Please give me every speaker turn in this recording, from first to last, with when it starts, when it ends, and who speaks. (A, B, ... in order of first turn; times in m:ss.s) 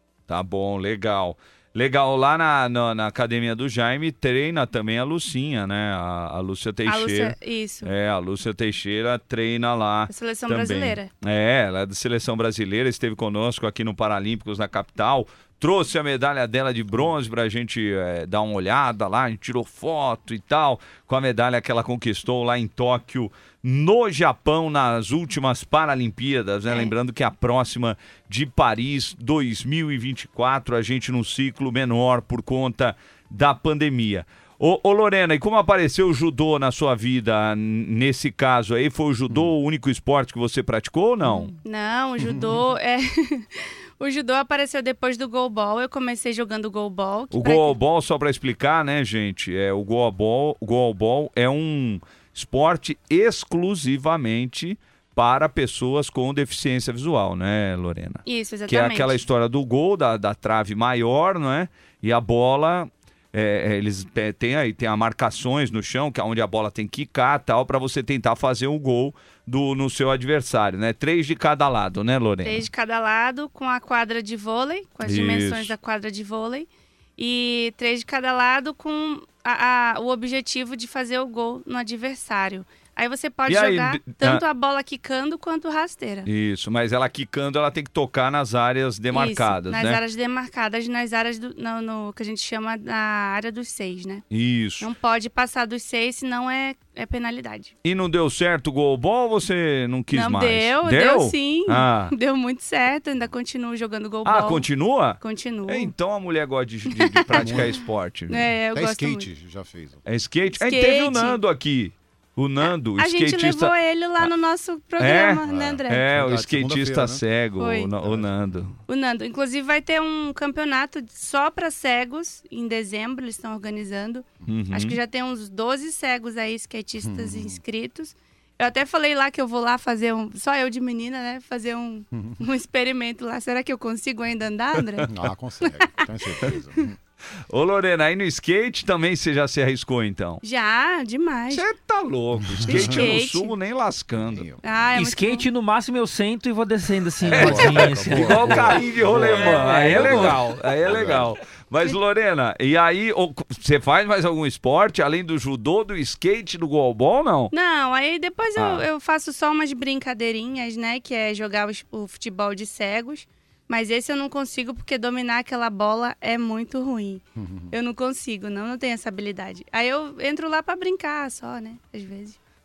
0:00.3-0:41.5 A
0:06.9-0:07.9 B
0:10.1-0:11.1 B
0:41.6-0:47.8 B
0:47.3-1:12.7 A
0:58.3-0:59.2 B
1:12.4-1:26.3 B
1:15.0-1:15.7 A
1:23.5-1:24.4 A
1:26.2-1:30.0 A
1:29.1-1:34.2 B
1:34.3-1:34.9 A
1:34.8-1:37.7 B
1:37.8-1:42.1 A
1:40.1-1:44.7 B
1:44.2-1:48.4 A
1:45.2-1:45.9 B
1:47.0-1:47.7 B
1:47.4-1:47.8 C
1:48.3-1:49.3 B
1:48.7-1:50.0 C
1:50.1-1:54.3 A
1:50.5-1:51.4 B
1:52.6-1:56.0 B
1:55.0-1:58.8 A
1:55.4-1:57.2 C
1:57.6-1:57.9 B
1:58.0-1:58.3 C
1:58.9-2:15.1 B
2:04.5-2:05.0 A
2:07.0-2:07.6 C
2:12.1-2:12.4 C
2:15.1-2:17.0 C
2:17.5-2:20.4 A
2:20.4-2:21.6 B
2:21.5-2:24.5 A
2:22.6-2:22.9 C
2:22.7-2:23.5 B
2:24.3-2:24.6 C
2:24.6-2:25.5 B
2:24.9-2:30.4 D
2:27.2-2:31.4 C
2:27.2-2:37.5 A
2:37.5-2:52.4 B
2:38.6-2:38.9 A
2:47.4-2:47.7 C